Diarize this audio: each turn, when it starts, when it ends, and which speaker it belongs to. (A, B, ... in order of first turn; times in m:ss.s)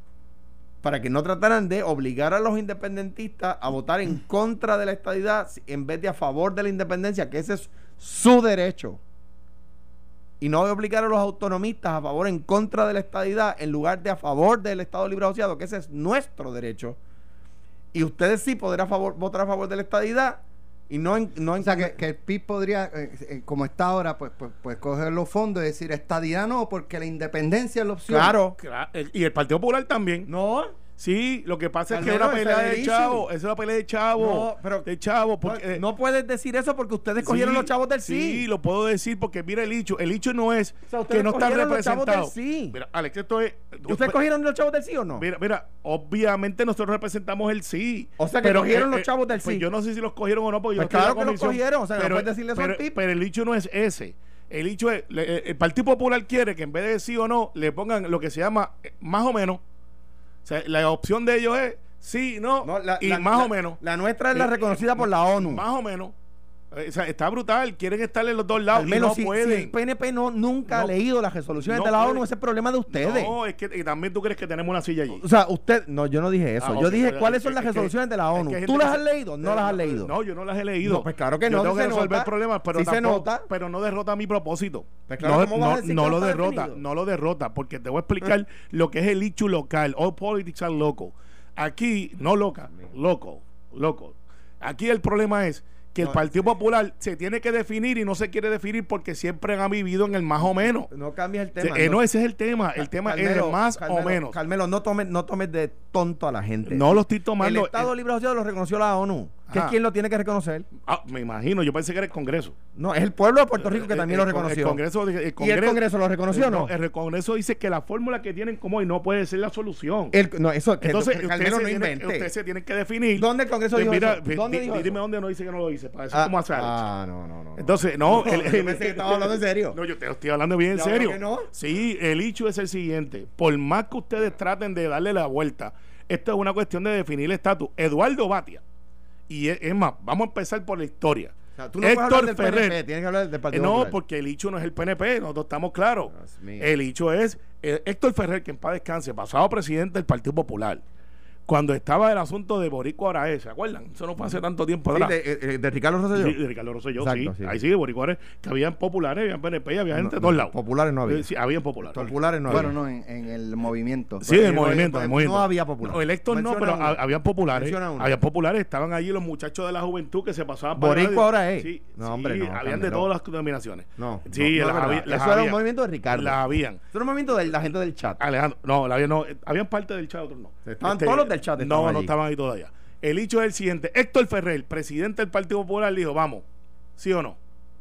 0:00.8-0:09.0 A
0:10.4-0:17.0 A
0:17.9-0:22.0 A
0:21.6-0:28.4 B
0:28.1-0:28.6 A
0:28.6-0:30.3 C
0:30.2-0:30.8 A
0:31.0-0:35.8 C
0:31.9-0:33.3 A
0:34.2-0:34.9 A
0:35.4-0:38.4 A
0:37.2-0:44.2 C
0:40.9-0:42.8 A
0:43.9-0:45.3 A
0:45.2-0:59.6 C
0:48.2-0:49.6 A
0:50.8-0:52.9 A
1:00.4-1:03.8 C
1:02.6-1:05.6 A
1:04.3-1:06.1 C
1:06.7-1:09.7 C
1:08.7-1:13.3 A
1:11.6-1:12.2 C
1:12.9-1:15.2 C
1:15.2-1:20.1 A
1:16.6-1:40.9 C
1:20.8-1:23.5 A
1:25.1-1:26.8 A
1:36.0-1:36.4 A
1:40.9-1:42.0 A
1:41.6-1:44.4 C
1:42.8-1:50.7 A
1:46.7-1:47.9 C
1:49.5-1:49.8 C
1:50.8-1:52.5 C
1:52.8-1:54.8 A
1:53.6-2:00.2 C
1:55.4-1:56.7 A
2:00.1-2:02.3 A
2:00.8-2:06.8 C
2:03.2-2:05.0 A
2:06.1-2:09.8 A
2:07.6-2:18.6 C
2:10.7-2:11.5 A
2:19.3-2:22.8 C
2:21.6-2:24.0 A
2:23.5-2:30.8 C
2:26.1-2:26.7 A
2:31.5-2:35.2 C
2:34.9-2:36.4 A
2:36.1-2:40.5 C
2:37.0-2:37.6 A
2:39.9-2:41.3 A
2:41.1-2:42.6 C
2:41.8-2:42.7 A
2:42.5-2:44.2 B
2:44.2-2:56.8 C
2:44.2-2:47.0 A
2:47.5-2:48.1 A
2:50.8-2:53.1 A
2:54.0-2:56.4 A
2:56.9-2:58.2 A
2:58.2-3:06.4 C
3:00.6-3:02.1 A
3:07.0-3:07.4 C